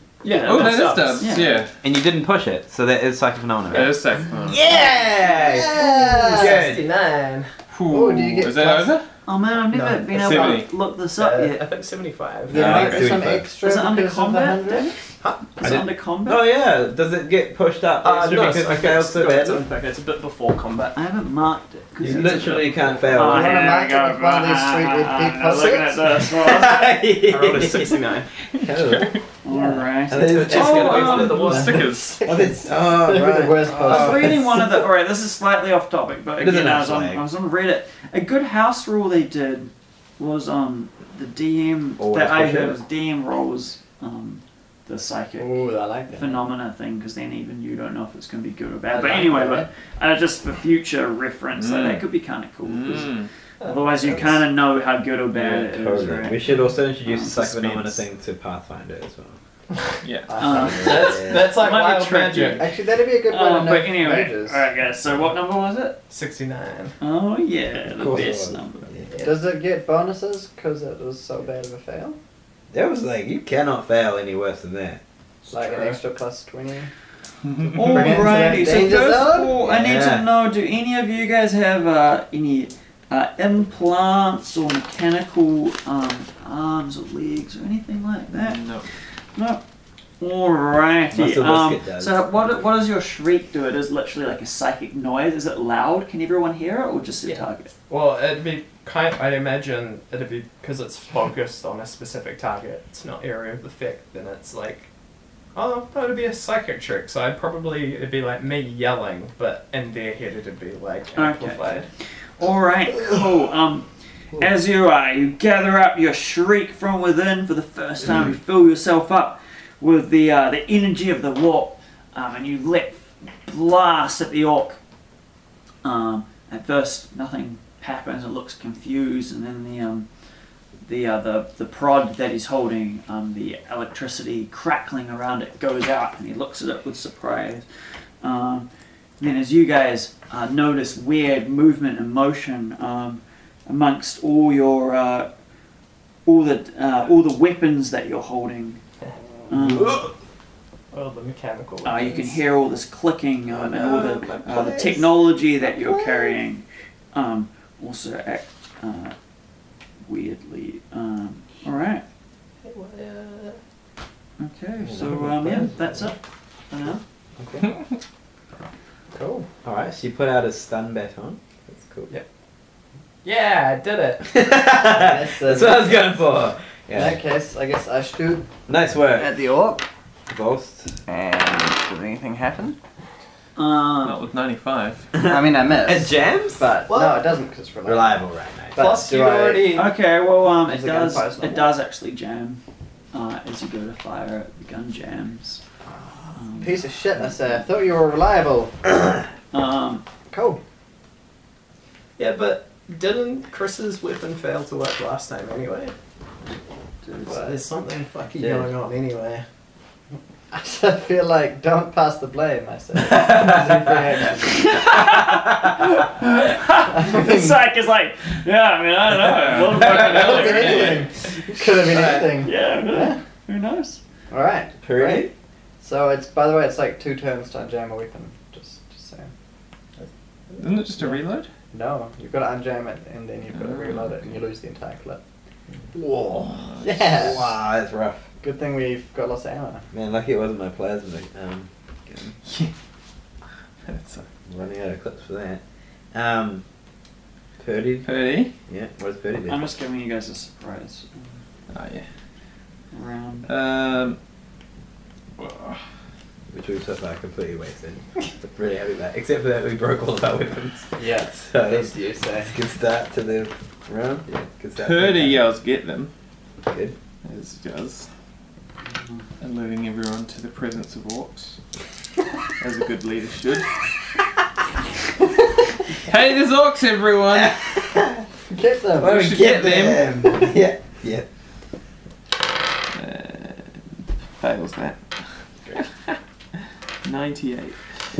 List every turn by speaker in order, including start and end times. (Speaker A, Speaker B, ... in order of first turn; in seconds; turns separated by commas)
Speaker A: 0.2-1.3, Speaker B: 0.2-1.6, Speaker C: 0.4-1.7, Speaker D: 1.8-6.8, Speaker C: 3.7-4.7, Speaker E: 5.3-6.6, Speaker A: 6.2-7.5, Speaker C: 7.7-9.0, Speaker E: 7.9-9.0, Speaker B: 9.2-11.6, Speaker A: 9.7-10.6, Speaker C: 10.1-10.7, Speaker A: 11.2-12.6, Speaker E: 12.5-14.9, Speaker C: 12.5-13.2, Speaker D: 12.5-13.5, Speaker B: 13.6-14.9, Speaker B: 15.6-16.4, Speaker D: 15.6-19.6, Speaker A: 18.0-20.9, Speaker B: 20.9-26.8, Speaker D: 22.0-23.8, Speaker A: 22.0-23.0, Speaker E: 23.1-26.1, Speaker D: 26.3-29.2, Speaker A: 27.2-28.3, Speaker C: 28.8-29.2, Speaker B: 29.4-31.7, Speaker E: 29.5-29.8, Speaker D: 30.1-34.6, Speaker C: 30.4-32.2, Speaker E: 31.4-34.6, Speaker B: 33.8-45.5, Speaker D: 36.4-37.2, Speaker D: 42.0-42.8, Speaker E: 45.4-46.5, Speaker B: 46.1-58.0, Speaker E: 48.9-49.7, Speaker C: 51.6-52.1, Speaker C: 52.6-53.3, Speaker A: 53.6-54.3, Speaker D: 55.3-59.4, Speaker C: 60.0-60.3, Speaker E: 60.3-61.1, Speaker B: 60.4-62.7, Speaker D: 60.5-61.5, Speaker A: 60.8-62.7, Speaker E: 62.6-64.6, Speaker B: 63.2-66.0, Speaker A: 66.1-66.9, Speaker B: 67.0-68.9, Speaker D: 67.9-69.1, Speaker E: 69.2-72.2, Speaker D: 72.7-75.0, Speaker E: 75.5-76.9, Speaker A: 75.6-76.0, Speaker B: 77.7-88.7, Speaker E: 77.8-79.6, Speaker D: 79.6-80.3, Speaker C: 88.3-88.9, Speaker B: 89.3-89.6, Speaker B: 90.2-97.7, Speaker D: 91.1-92.3, Speaker A: 97.2-104.9, Speaker A: 105.5-111.9, Speaker B: 111.2-111.8, Speaker B: 112.4-113.9, Speaker B: 114.4-124.8, Speaker B: 125.8-130.1, Speaker B: 130.8-137.6, Speaker B: 138.2-138.7, Speaker B: 139.2-145.3, Speaker B: 146.2-148.8, Speaker B: 149.5-150.1, Speaker A: 150.9-152.5, Speaker B: 151.8-159.1, Speaker A: 153.7-155.0, Speaker A: 155.6-156.3, Speaker B: 160.0-162.0, Speaker A: 162.6-163.6, Speaker B: 164.4-166.2, Speaker D: 164.8-165.9, Speaker B: 166.7-167.0, Speaker D: 167.4-167.7, Speaker D: 169.1-172.1, Speaker A: 173.2-174.2, Speaker D: 174.3-177.2, Speaker E: 174.8-176.1, Speaker E: 176.9-178.5, Speaker D: 178.7-179.4, Speaker E: 179.1-179.8, Speaker D: 180.3-181.0, Speaker E: 181.1-182.8, Speaker B: 183.6-184.2, Speaker C: 184.0-185.1, Speaker D: 185.1-186.7, Speaker E: 185.2-188.2, Speaker A: 186.9-187.2, Speaker D: 187.8-188.8, Speaker E: 188.7-189.9, Speaker A: 188.8-189.9, Speaker B: 189.7-192.6, Speaker E: 190.6-191.7, Speaker B: 193.1-195.6, Speaker E: 195.8-198.8, Speaker B: 196.3-196.7, Speaker B: 199.5-200.0, Speaker E: 200.3-200.6, Speaker A: 202.2-205.9, Speaker B: 207.0-207.4, Speaker A: 207.2-209.4, Speaker E: 207.3-207.6, Speaker D: 208.4-208.7, Speaker E: 210.5-214.9, Speaker D: 213.0-213.9, Speaker B: 214.6-221.0, Speaker E: 216.9-217.6, Speaker C: 219.2-221.0, Speaker E: 219.8-223.2, Speaker B: 222.4-224.0, Speaker E: 224.3-229.3, Speaker D: 224.8-225.3, Speaker A: 230.0-231.0, Speaker C: 230.6-231.5, Speaker E: 231.7-235.2, Speaker C: 233.5-234.1, Speaker E: 235.9-237.4, Speaker C: 236.4-237.1, Speaker D: 237.2-238.2, Speaker E: 238.4-239.8, Speaker D: 239.9-242.3, Speaker C: 242.4-242.7, Speaker C: 243.8-244.3, Speaker D: 244.5-245.6, Speaker D: 246.1-246.6, Speaker D: 247.6-248.1, Speaker C: 248.0-248.5, Speaker D: 248.7-249.8, Speaker B: 249.5-251.3, Speaker C: 251.7-252.0, Speaker B: 252.9-253.5, Speaker C: 253.5-254.2, Speaker C: 255.4-255.8, Speaker D: 256.5-265.4, Speaker E: 260.9-262.5, Speaker C: 264.8-266.1, Speaker D: 266.7-266.9, Speaker C: 267.2-268.1, Speaker C: 269.4-271.6, Speaker C: 272.6-273.8, Speaker C: 276.0-277.6, Speaker D: 277.3-278.2, Speaker E: 278.5-279.2, Speaker D: 279.0-281.2, Speaker C: 279.0-280.5, Speaker C: 282.9-283.7, Speaker C: 284.4-285.0, Speaker C: 287.0-287.8